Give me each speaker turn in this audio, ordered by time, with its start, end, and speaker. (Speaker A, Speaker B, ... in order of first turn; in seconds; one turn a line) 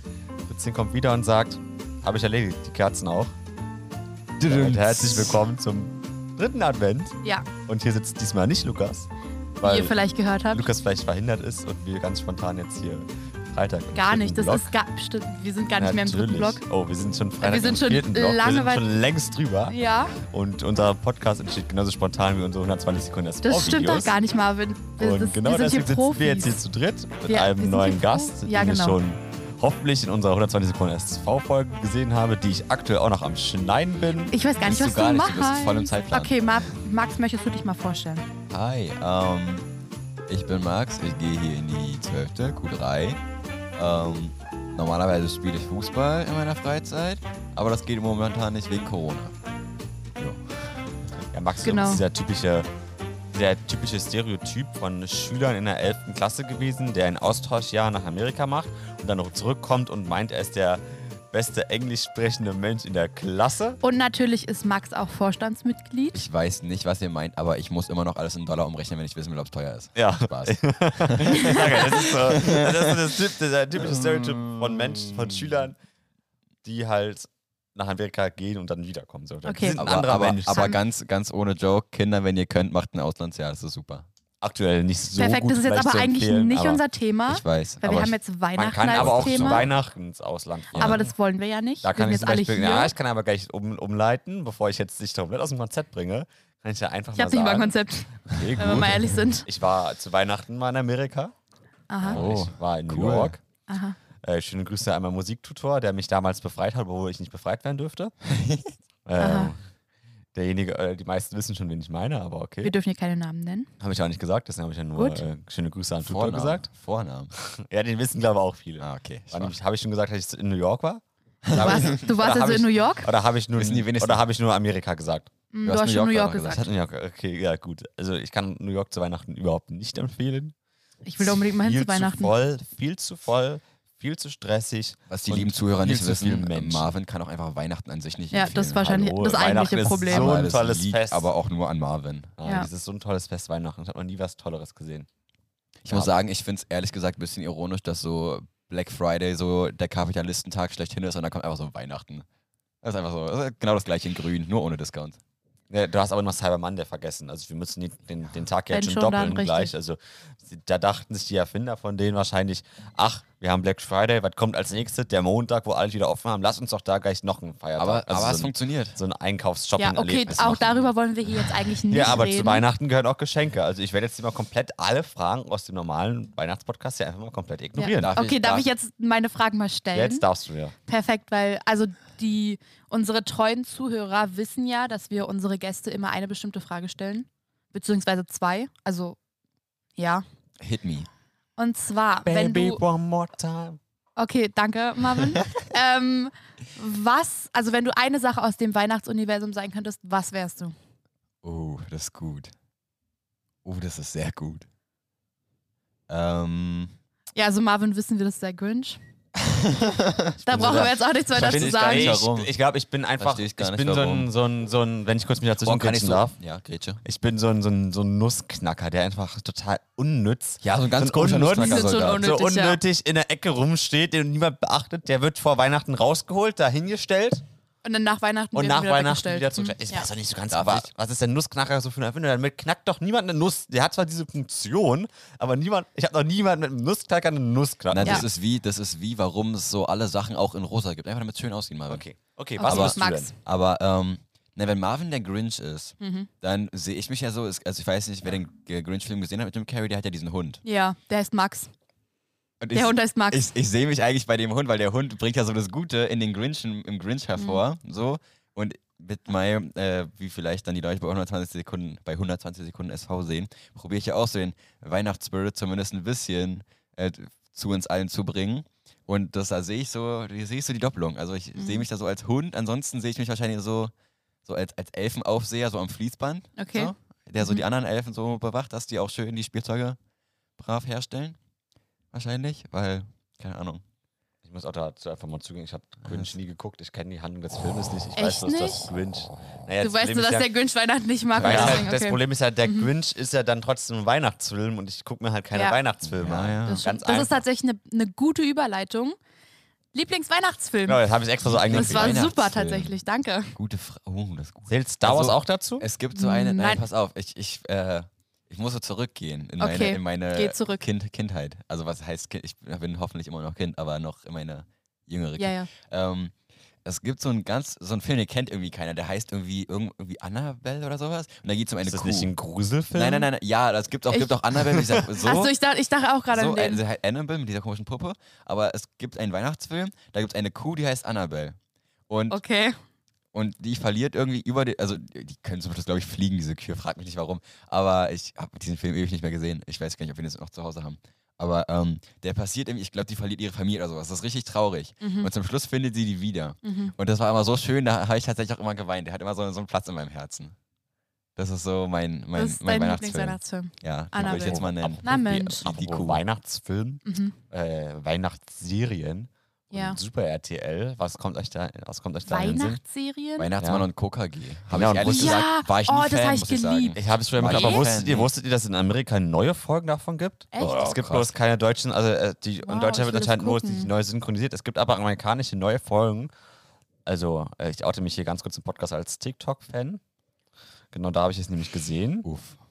Speaker A: 0.5-3.4
Speaker B: 4.4-5.4
Speaker A: 4.5-9.1
Speaker C: 7.2-7.5
Speaker A: 9.6-10.0
Speaker C: 9.6-10.7
Speaker A: 10.5-14.7
Speaker C: 13.9-16.6
Speaker A: 15.8-24.1
Speaker C: 17.4-18.9
Speaker C: 19.7-20.1
Speaker C: 23.4-26.6
Speaker A: 25.0-34.3
Speaker C: 27.3-29.0
Speaker C: 34.3-38.2
Speaker B: 34.6-36.7
Speaker B: 38.5-39.7
Speaker B: 40.3-43.2
Speaker B: 43.8-49.3
Speaker B: 50.2-51.1
Speaker A: 51.3-52.7
Speaker C: 51.6-52.0
Speaker A: 53.3-63.8
Speaker C: 63.8-66.2
Speaker B: 66.1-73.1
Speaker A: 70.0-75.8
Speaker C: 71.3-72.0
Speaker B: 73.9-75.4
Speaker A: 76.6-80.7
Speaker C: 79.4-79.8
Speaker B: 79.7-84.0
Speaker A: 84.4-86.8
Speaker C: 85.2-89.7
Speaker B: 87.3-88.1
Speaker A: 87.8-91.0
Speaker B: 88.9-89.7
Speaker B: 90.7-91.0
Speaker C: 90.8-92.9
Speaker A: 91.8-101.3
Speaker C: 97.1-99.5
Speaker B: 98.3-98.8
Speaker C: 101.9-102.2
Speaker A: 102.0-103.4
Speaker B: 102.1-103.4
Speaker C: 103.7-104.0
Speaker A: 104.2-108.1
Speaker B: 108.3-108.7
Speaker A: 109.0-109.6
Speaker C: 109.2-109.5
Speaker A: 110.3-112.7
Speaker C: 112.6-113.7
Speaker A: 113.8-116.7
Speaker C: 115.0-115.2
Speaker B: 116.0-117.3
Speaker A: 117.4-125.3
Speaker B: 118.8-119.5
Speaker B: 121.5-122.1
Speaker C: 121.6-123.1
Speaker B: 123.6-124.2
Speaker C: 125.5-126.7
Speaker B: 125.6-126.7
Speaker A: 126.5-130.5
Speaker C: 131.0-132.3
Speaker A: 131.2-136.9
Speaker B: 135.1-138.8
Speaker C: 138.3-140.4
Speaker A: 138.8-141.3
Speaker B: 140.1-142.4
Speaker A: 142.4-145.1
Speaker B: 145.8-152.2
Speaker B: 152.8-155.2
Speaker A: 155.7-170.6
Speaker C: 158.7-159.7
Speaker B: 167.8-169.0
Speaker C: 169.8-172.7
Speaker B: 170.3-170.9
Speaker A: 171.9-178.1
Speaker C: 177.8-180.2
Speaker B: 178.0-178.7
Speaker A: 179.9-180.7
Speaker C: 180.9-189.2
Speaker C: 190.0-190.2
Speaker B: 190.6-191.1
Speaker C: 191.6-192.8
Speaker A: 192.2-193.8
Speaker C: 194.2-200.7
Speaker B: 201.4-202.5
Speaker B: 203.6-204.7
Speaker B: 206.1-206.9
Speaker C: 207.3-209.0
Speaker B: 209.4-210.4
Speaker A: 210.4-216.3
Speaker C: 210.4-212.2
Speaker B: 211.3-212.5
Speaker B: 213.2-214.3
Speaker B: 215.6-217.0
Speaker A: 217.0-227.4
Speaker B: 220.6-222.2
Speaker C: 221.6-222.8
Speaker C: 227.8-230.1
Speaker A: 228.5-238.3
Speaker B: 230.5-230.8
Speaker B: 237.9-242.0
Speaker A: 241.9-243.3
Speaker C: 242.6-243.3
Speaker B: 242.6-250.6
Speaker C: 246.0-246.3
Speaker C: 250.6-251.7
Speaker B: 252.6-273.9
Speaker C: 252.7-253.4
Speaker C: 257.4-257.6
Speaker C: 271.6-271.8
Speaker B: 274.4-280.0
Speaker C: 276.6-277.6
Speaker B: 280.6-281.4
Speaker B: 282.1-283.8
Speaker A: 284.4-290.5
Speaker B: 286.1-286.3
Speaker C: 288.1-288.9
Speaker C: 289.8-292.9
Speaker B: 291.3-291.9
Speaker A: 291.4-297.4
Speaker C: 295.5-295.8
Speaker B: 296.1-296.8
Speaker C: 296.6-299.2
Speaker C: 299.9-301.0
Speaker A: 300.9-302.2
Speaker B: 301.5-303.0
Speaker C: 301.7-303.5
Speaker B: 303.5-316.3
Speaker A: 304.7-305.9
Speaker C: 306.1-306.8
Speaker C: 309.6-310.8
Speaker C: 315.4-315.7
Speaker B: 316.8-322.3
Speaker A: 321.8-323.3
Speaker B: 322.9-325.5
Speaker A: 324.6-325.1
Speaker C: 325.2-326.8
Speaker B: 326.3-331.6
Speaker B: 332.1-332.4
Speaker C: 332.3-332.8
Speaker B: 333.3-350.5
Speaker C: 345.0-345.3
Speaker C: 346.6-346.9
Speaker B: 351.4-356.2
Speaker C: 352.4-355.7
Speaker A: 354.2-362.8
Speaker C: 357.0-357.4
Speaker C: 359.7-360.0
Speaker C: 362.3-363.5
Speaker B: 363.4-368.3
Speaker A: 363.6-363.9
Speaker A: 364.7-365.4
Speaker C: 365.0-367.9
Speaker A: 366.9-376.3
Speaker C: 370.5-370.9
Speaker B: 370.6-371.3
Speaker C: 372.6-373.9
Speaker A: 377.1-380.0
Speaker A: 380.9-382.3
Speaker B: 382.2-382.6